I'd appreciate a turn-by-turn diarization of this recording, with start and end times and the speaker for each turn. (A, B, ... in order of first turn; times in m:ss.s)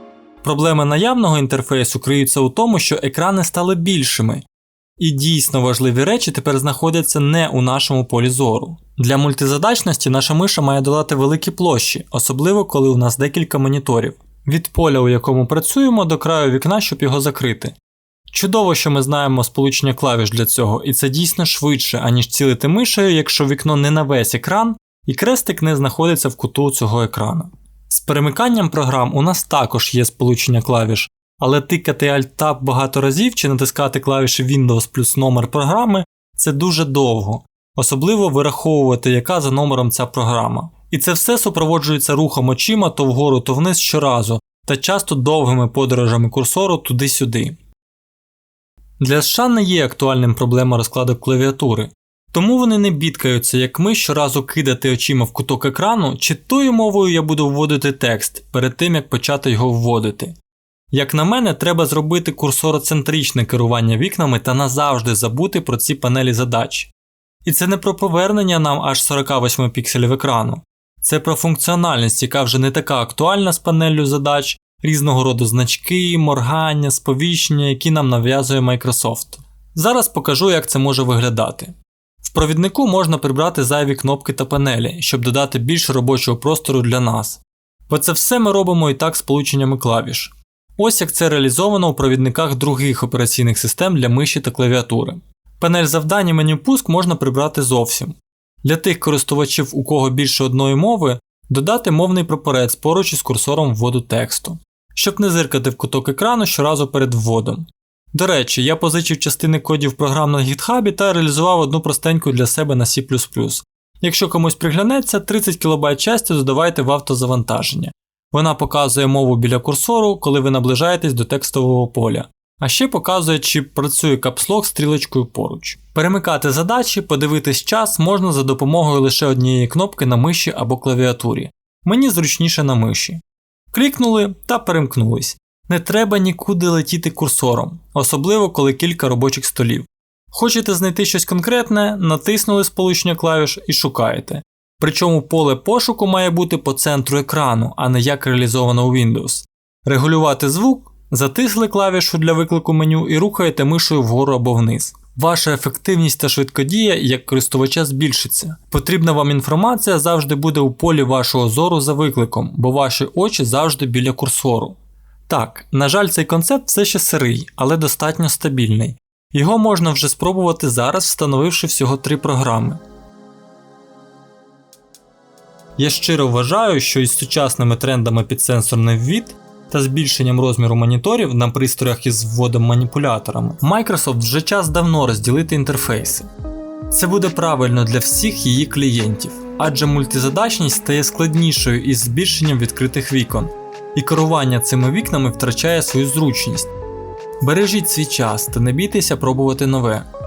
0:00.4-0:04.5 A
0:05.0-0:17.7 A
0:18.3-0:47.6 A
0:49.0-1:00.4 A
1:00.9-1:06.9 A
1:07.4-2:13.2 A
2:13.7-2:52.8 A
2:55.8-3:06.3 A
3:06.9-3:16.7 A
3:17.4-3:20.1 A